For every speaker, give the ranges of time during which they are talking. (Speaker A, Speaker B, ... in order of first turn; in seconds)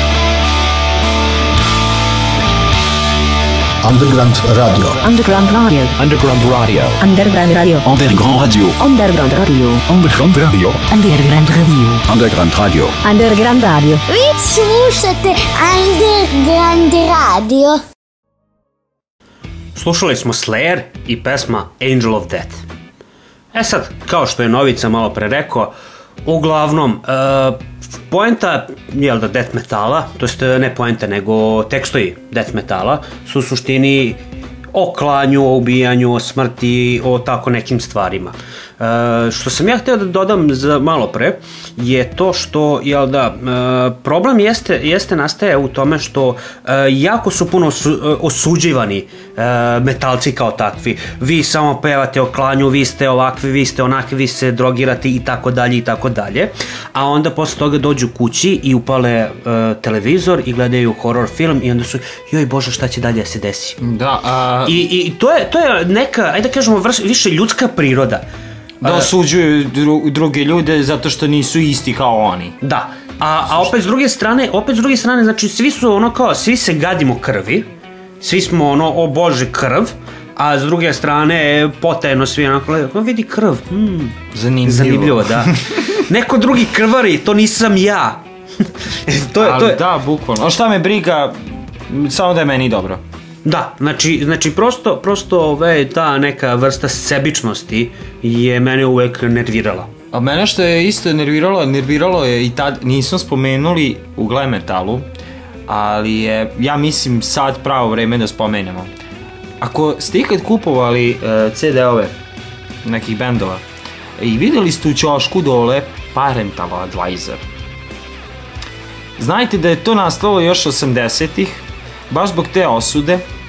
Speaker A: 3.8-5.0, 6.0-7.0, 7.8-8.8, 9.8-10.9, 11.5-13.0
Speaker B: 5.0-6.0, 7.0-7.9, 8.8-9.8, 10.9-12.0, 13.0-14.0
Speaker C: 14.1-17.8
Speaker D: 19.8-22.6, 23.5-25.7, 26.2-34.2, 34.7-63.8, 64.7-68.3, 68.8-69.1, 72.6-77.7, 78.2-89.8, 93.4-99.9
Speaker E: 63.8-64.8, 68.8-72.6, 84.3-85.8, 89.4-93.0, 100.1-105.1, 105.7-108.9, 109.6-112.2, 112.8-113.6, 114.2-117.4, 119.2-123.2